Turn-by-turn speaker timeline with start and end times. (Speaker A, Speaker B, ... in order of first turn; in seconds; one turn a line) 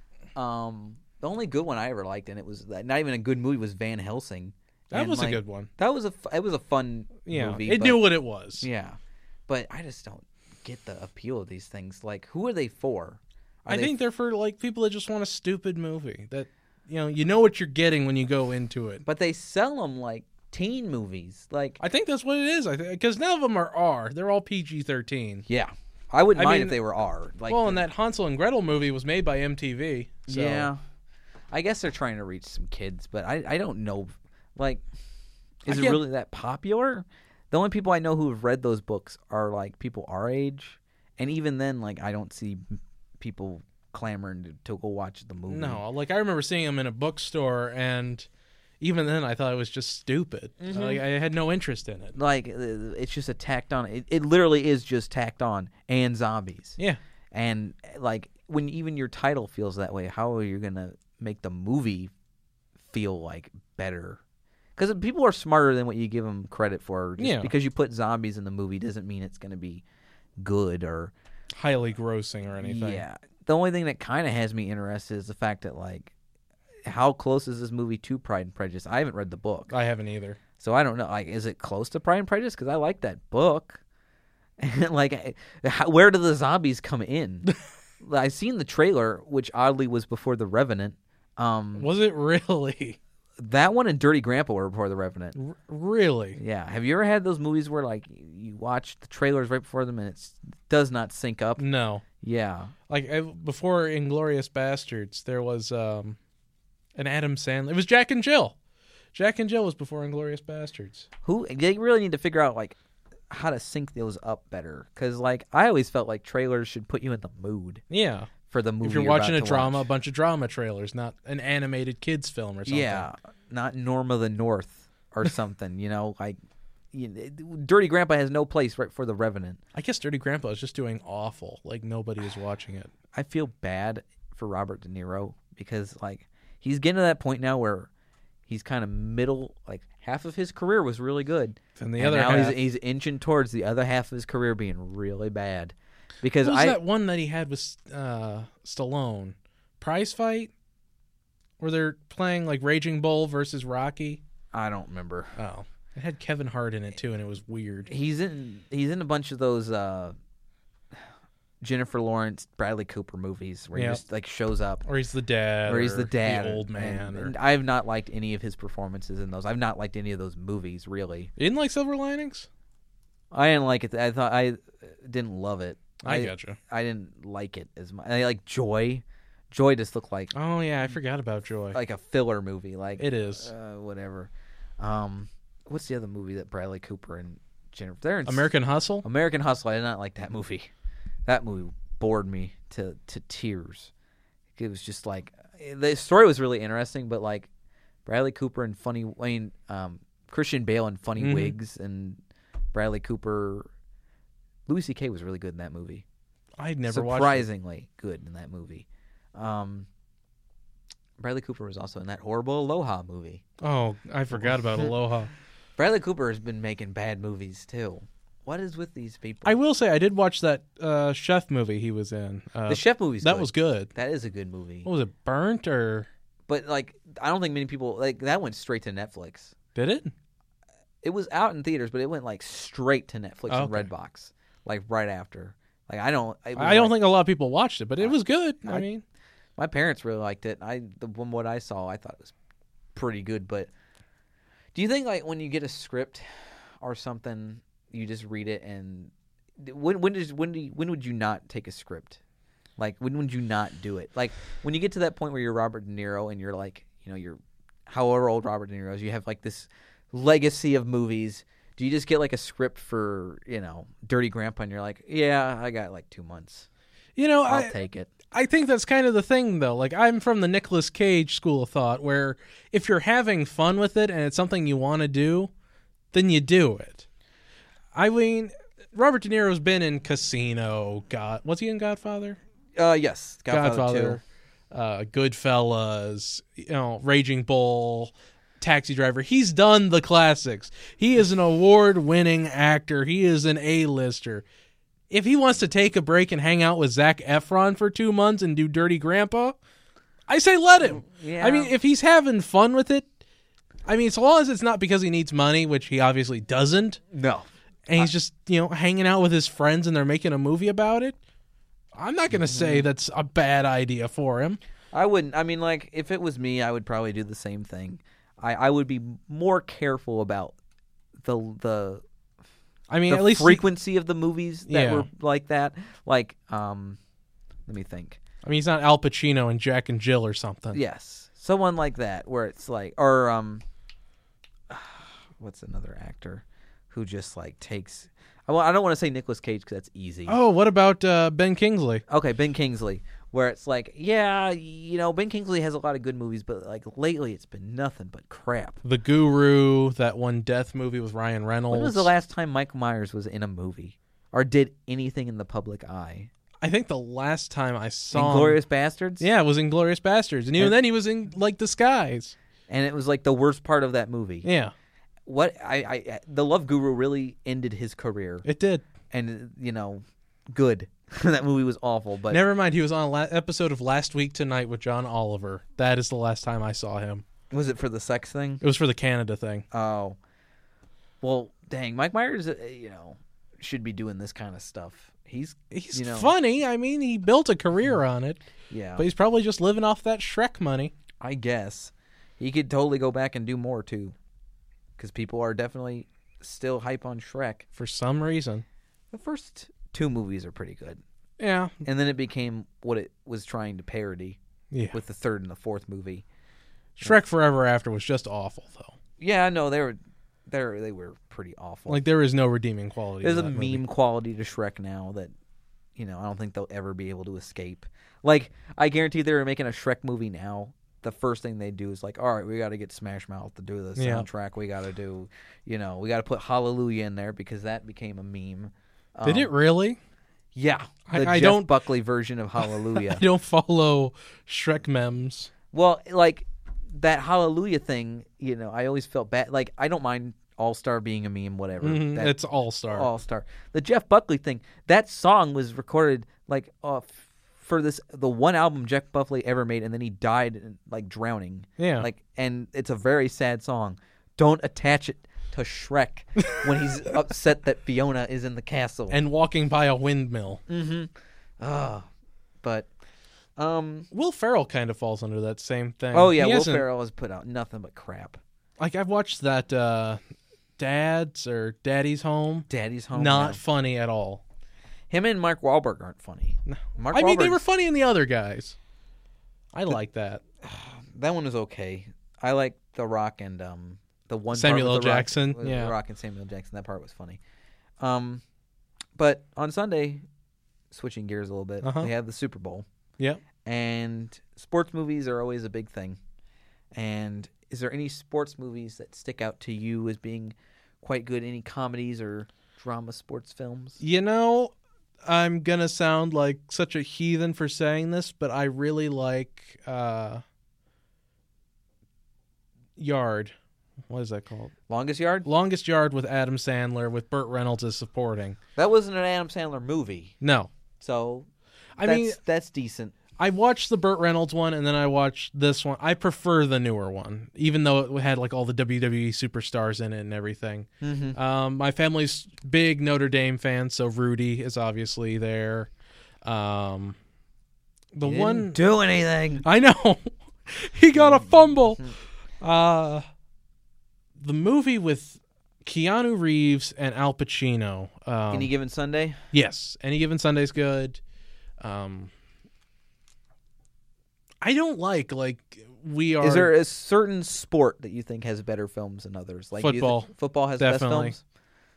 Speaker A: 0.4-8.0
Speaker B: 4.9-5.7
Speaker B: 7.2-8.7
Speaker A: 8.6-13.9
Speaker B: 13.7-19.0
Speaker A: 19.0-21.8
Speaker B: 21.8-25.4
Speaker A: 25.5-27.9
Speaker B: 26.4-26.8
Speaker B: 27.5-30.7
Speaker A: 30.3-30.8
Speaker A: 31.5-34.8
Speaker A: 35.6-45.8
Speaker B: 35.7-36.0
Speaker B: 45.5-48.3
Speaker B: 48.8-52.1
Speaker A: 50.6-51.0
Speaker A: 52.1-56.8
Speaker A: 57.3-62.1
Speaker A: 62.9-64.2
Speaker A: 64.8-69.8
Speaker B: 67.2-67.5
Speaker A: 70.4-71.1
Speaker B: 71.5-73.0
Speaker A: 72.6-76.1
Speaker A: 76.9-79.7
Speaker B: 79.7-80.4
Speaker A: 80.6-83.8
Speaker A: 84.6-91.9
Speaker B: 91.8-93.0
Speaker A: 93.4-95.4
Speaker B: 95.4-96.4
Speaker A: 96.4-101.6
Speaker B: 101.6-102.0
Speaker A: 102.2-102.7
Speaker B: 102.9-106.2
Speaker B: 107.0-108.6
Speaker B: 109.1-111.1
Speaker A: 111.2-112.8
Speaker A: 113.3-117.8
Speaker B: 117.9-123.1
Speaker A: 118.5-119.9
Speaker A: 122.7-126.4
Speaker A: 126.9-129.6
Speaker B: 129.7-132.9
Speaker A: 133.1-137.9
Speaker A: 138.5-146.8
Speaker B: 141.8-142.6
Speaker B: 146.4-150.5
Speaker B: 151.6-154.2
Speaker A: 154.5-155.3
Speaker B: 155.4-157.9
Speaker A: 157.9-160.1
Speaker A: 161.6-164.8
Speaker B: 163.7-164.0
Speaker B: 164.8-167.3
Speaker A: 165.7-171.3
Speaker B: 171.4-172.5
Speaker A: 173.3-180.3
Speaker B: 176.0-176.6
Speaker B: 180.3-181.8
Speaker A: 181.7-188.5
Speaker B: 183.0-183.5
Speaker B: 188.3-189.1
Speaker A: 189.0-190.7
Speaker A: 191.2-193.9
Speaker A: 194.6-197.5
Speaker A: 198.1-202.2
Speaker B: 201.2-201.6
Speaker A: 202.7-203.7
Speaker A: 204.7-206.1
Speaker B: 206.6-207.4
Speaker A: 206.9-209.9
Speaker A: 211.2-213.4
Speaker B: 213.6-215.3
Speaker A: 214.4-214.9
Speaker A: 215.8-219.6
Speaker B: 219.4-223.9
Speaker A: 222.7-224.9
Speaker B: 224.8-226.1
Speaker A: 226.5-229.5
Speaker B: 229.7-230.1
Speaker A: 231.0-236.9
Speaker B: 233.5-233.9
Speaker B: 236.6-239.0
Speaker A: 238.0-238.9
Speaker A: 239.6-242.3
Speaker A: 242.9-243.7
Speaker A: 244.7-246.2
Speaker A: 246.8-252.2
Speaker A: 252.8-266.7
Speaker B: 267.1-267.7
Speaker A: 267.5-268.1
Speaker B: 268.3-275.5
Speaker B: 276.1-277.1
Speaker B: 277.9-282.4
Speaker A: 282.8-284.2
Speaker B: 283.5-294.4
Speaker B: 295.1-299.6
Speaker B: 300.3-303.1
Speaker A: 300.9-301.7
Speaker B: 303.9-307.0
Speaker A: 307.1-308.1
Speaker B: 307.9-311.1
Speaker B: 311.9-314.6
Speaker A: 312.3-312.9
Speaker A: 314.9-320.6
Speaker A: 321.2-322.0
Speaker B: 322.9-323.6
Speaker A: 323.1-327.0
Speaker B: 324.7-325.1
Speaker A: 327.7-328.2
Speaker B: 328.4-330.8
Speaker A: 330.7-333.6
Speaker A: 334.7-340.4
Speaker B: 340.3-342.0
Speaker A: 342.1-348.8
Speaker B: 348.8-352.1
Speaker A: 351.7-356.3
Speaker B: 356.6-358.6
Speaker A: 358.1-359.3
Speaker B: 359.2-362.3
Speaker A: 362.7-364.5
Speaker B: 364.4-364.7
Speaker A: 365.3-368.4
Speaker B: 368.4-368.8
Speaker A: 369.1-372.4
Speaker B: 372.3-377.2
Speaker A: 377.5-378.6
Speaker B: 378.6-379.7
Speaker A: 379.7-380.2
Speaker A: 381.2-386.3
Speaker B: 385.7-388.4
Speaker A: 388.7-389.1
Speaker B: 389.0-390.9
Speaker A: 391.2-394.1
Speaker A: 395.0-397.6
Speaker B: 397.8-398.6
Speaker A: 399.1-401.0
Speaker B: 401.4-401.7
Speaker A: 401.8-404.4
Speaker B: 404.7-405.0
Speaker A: 404.9-406.2
Speaker B: 407.0-408.9
Speaker A: 409.2-412.0
Speaker B: 411.9-413.8
Speaker A: 413.2-415.3
Speaker A: 415.9-429.5
Speaker B: 424.0-424.3
Speaker B: 429.2-430.0
Speaker A: 430.6-433.2
Speaker B: 431.1-431.7
Speaker B: 432.6-435.5
Speaker A: 435.7-442.3
Speaker B: 441.8-443.1
Speaker A: 442.9-459.2
Speaker B: 451.8-452.1
Speaker B: 459.1-460.6
Speaker A: 460.7-462.1
Speaker A: 462.6-462.9
Speaker A: 463.6-464.1
Speaker B: 464.1-466.8
Speaker A: 466.1-468.4
Speaker B: 468.8-470.2
Speaker B: 470.8-474.4
Speaker A: 472.7-473.6
Speaker A: 475.1-477.6
Speaker B: 476.7-478.8
Speaker B: 479.7-480.4
Speaker A: 480.6-487.4
Speaker B: 484.5-485.9
Speaker A: 488.0-488.4
Speaker A: 489.2-490.2
Speaker A: 490.9-492.9
Speaker B: 491.8-492.1
Speaker A: 493.6-496.2
Speaker A: 496.9-504.0
Speaker B: 504.0-504.7
Speaker B: 505.2-510.4
Speaker B: 513.0-513.5
Speaker B: 514.1-514.7
Speaker A: 514.9-515.5
Speaker B: 515.5-518.6
Speaker A: 518.8-520.4
Speaker B: 520.4-520.7
Speaker A: 521.0-521.5
Speaker B: 522.0-522.4
Speaker A: 522.0-523.1
Speaker B: 523.4-535.9
Speaker A: 531.0-531.4
Speaker B: 536.4-537.2
Speaker B: 538.1-538.8
Speaker A: 538.2-539.6
Speaker B: 539.6-542.0
Speaker A: 541.1-542.1
Speaker B: 542.6-543.2
Speaker B: 544.4-548.7
Speaker A: 548.5-549.4
Speaker B: 549.5-551.2
Speaker B: 551.8-552.3
Speaker B: 554.6-556.7
Speaker A: 556.4-561.4
Speaker B: 559.8-561.3